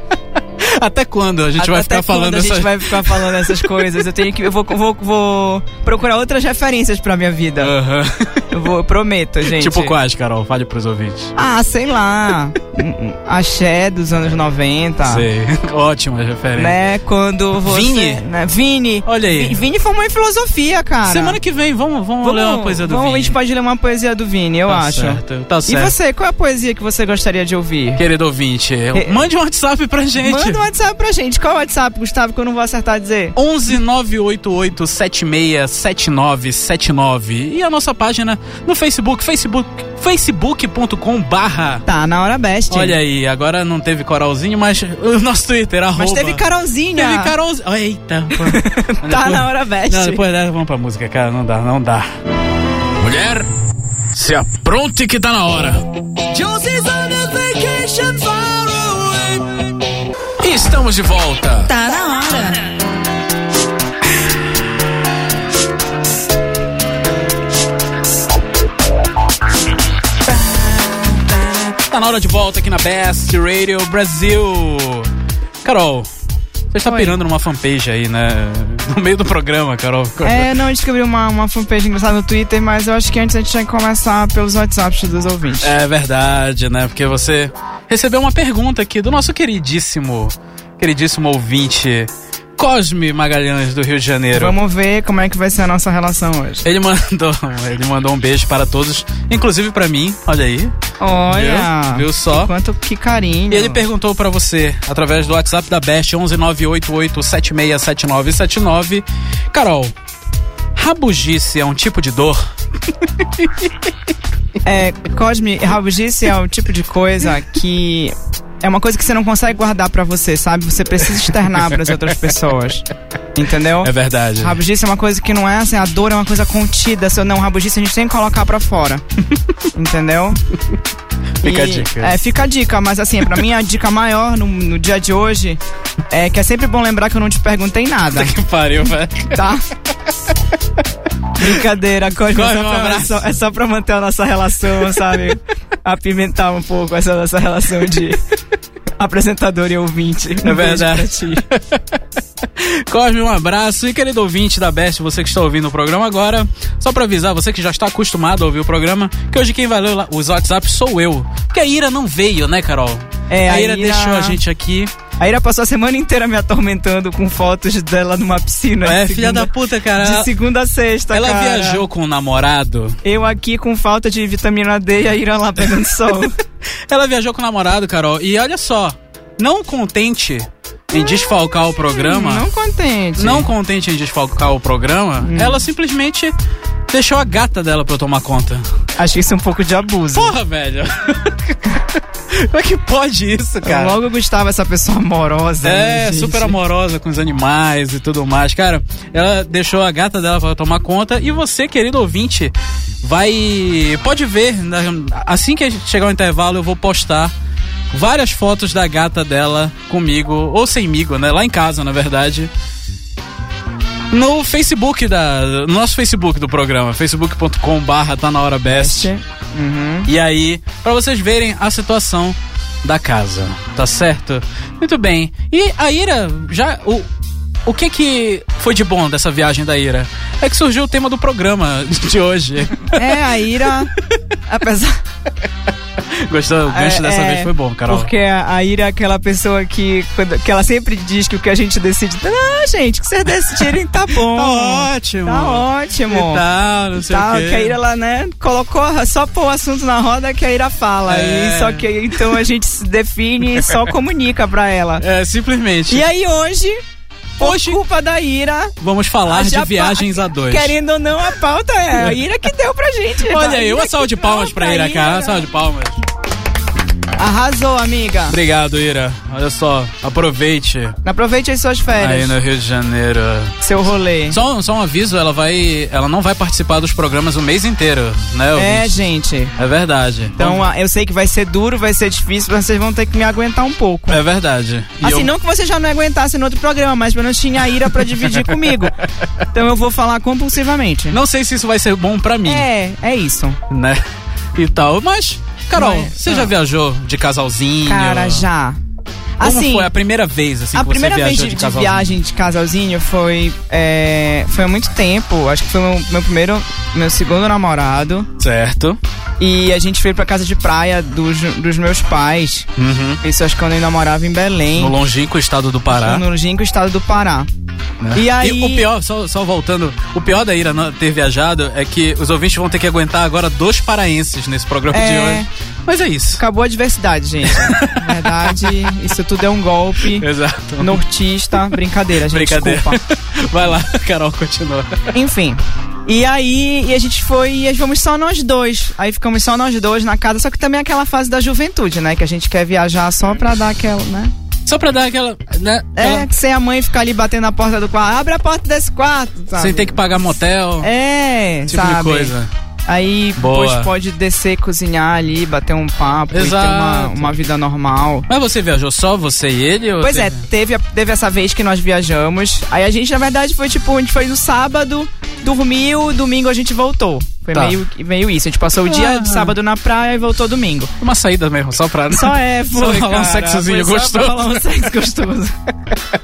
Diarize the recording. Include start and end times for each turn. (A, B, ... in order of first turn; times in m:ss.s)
0:00.6-0:03.7 A
0:01.6-0:07.7 B
0:07.6-0:08.6 A
0:08.5-0:10.0 B
0:09.4-0:11.3 A
0:11.4-0:15.3 B
0:15.0-0:16.8 A
0:16.6-0:21.4 B
0:17.6-0:18.2 A
0:19.0-0:19.6 A
0:21.0-0:23.4 A
0:22.2-0:28.0 B
0:24.7-0:25.9 A
0:28.0-0:30.6 A
0:30.2-0:33.4 B
0:33.3-0:41.8 A
0:41.8-0:43.0 B
0:42.7-0:46.4 A
0:46.0-0:47.3 B
0:46.9-0:52.1 A
0:48.4-0:50.2 B
0:53.0-0:53.5 A
0:54.1-0:55.8 A
0:56.3-0:59.4 C
1:00.4-1:01.7 A
1:01.6-1:02.6 C
1:10.2-1:15.1 A
1:15.6-1:16.1 A
1:16.7-1:20.5 A
1:16.8-1:17.2 B
1:20.2-1:25.7 B
1:25.6-1:34.6 A
1:34.3-1:36.6 B
1:36.6-1:40.7 A
1:41.0-1:43.8 B
1:41.3-1:42.5 A
1:43.5-1:49.9 A
1:50.8-1:52.4 A
1:53.2-1:53.7 A
1:54.6-2:09.0 B
2:03.8-2:04.6 A
2:09.7-2:10.4 B
2:11.4-2:12.2 A
2:11.4-2:18.3 B
2:18.1-2:19.4 A
2:19.3-2:19.6 B
2:21.4-2:28.2 B
2:22.2-2:23.4 A
2:29.0-2:31.4 B
2:30.4-2:32.0 A
2:32.6-2:44.9 A
2:43.3-2:44.4 B
2:45.2-2:51.8 B
2:48.8-2:50.3 A
2:51.1-2:53.0 A
2:53.0-2:56.3 B
2:56.9-3:02.4 A
3:01.9-3:03.5 B
3:03.2-3:06.3 A
3:05.2-3:05.6 B
3:06.9-3:08.6 A
3:09.0-3:10.3 B
3:10.1-3:14.0 A
3:13.6-3:16.6 B
3:15.6-3:27.3 A
3:27.9-3:32.5 A
3:34.1-3:39.1 A
3:38.7-3:40.1 B
3:40.0-3:47.1 A
3:47.6-3:53.2 A
3:52.9-3:53.9 B
3:54.5-3:55.0 B
3:56.0-3:58.1 A
3:56.7-4:06.4 B
4:04.1-4:07.8 A
4:07.0-4:15.0 B
4:11.0-4:11.9 A
4:15.0-4:16.1 A
4:15.9-4:16.8 B
4:17.4-4:17.8 A
4:17.4-4:18.7 B
4:18.8-4:20.8 A
4:19.2-4:25.5 B
4:23.2-4:26.0 A
4:27.2-4:28.4 B
4:28.3-4:31.0 A
4:31.0-4:32.4 B
4:32.0-4:33.6 A
4:33.6-4:34.4 B
4:34.3-4:39.0 A
4:38.5-4:39.5 B
4:39.6-4:40.6 A
4:40.4-4:44.2 B
4:44.1-4:45.3 A
4:45.0-4:49.0 B
4:49.5-4:51.2 B
4:51.1-4:52.7 A
4:52.4-4:53.6 B
4:53.7-4:54.0 A
4:54.5-4:58.5 A
4:55.7-4:56.5 B
4:57.8-4:58.8 B
4:59.4-4:59.9 B
4:59.4-5:02.2 A
5:00.7-5:08.3 B
5:08.4-5:09.0 A
5:09.4-5:12.7 B
5:12.8-5:13.2 A
5:13.2-5:15.0 B
5:14.7-5:16.2 A
5:15.9-5:17.5 B
5:18.0-5:26.4 A
5:18.1-5:18.9 B
5:24.9-5:25.5 B
5:26.4-5:30.3 B
5:27.4-5:28.9 A
5:30.0-5:31.0 A
5:30.8-5:33.0 B
5:32.2-5:35.0 A
5:35.1-5:44.3 B
5:44.6-5:46.3 A
5:46.0-5:50.0 B
5:49.6-5:50.9 A
5:50.8-5:52.3 B
5:51.7-5:52.5 A
5:52.9-5:58.3 B
5:53.4-5:53.9 A
5:56.3-5:57.4 A
5:58.3-6:00.4 A
6:00.0-6:10.9 B
6:07.5-6:07.8 A
6:08.8-6:09.6 A
6:11.0-6:14.8 A
6:12.1-6:15.5 B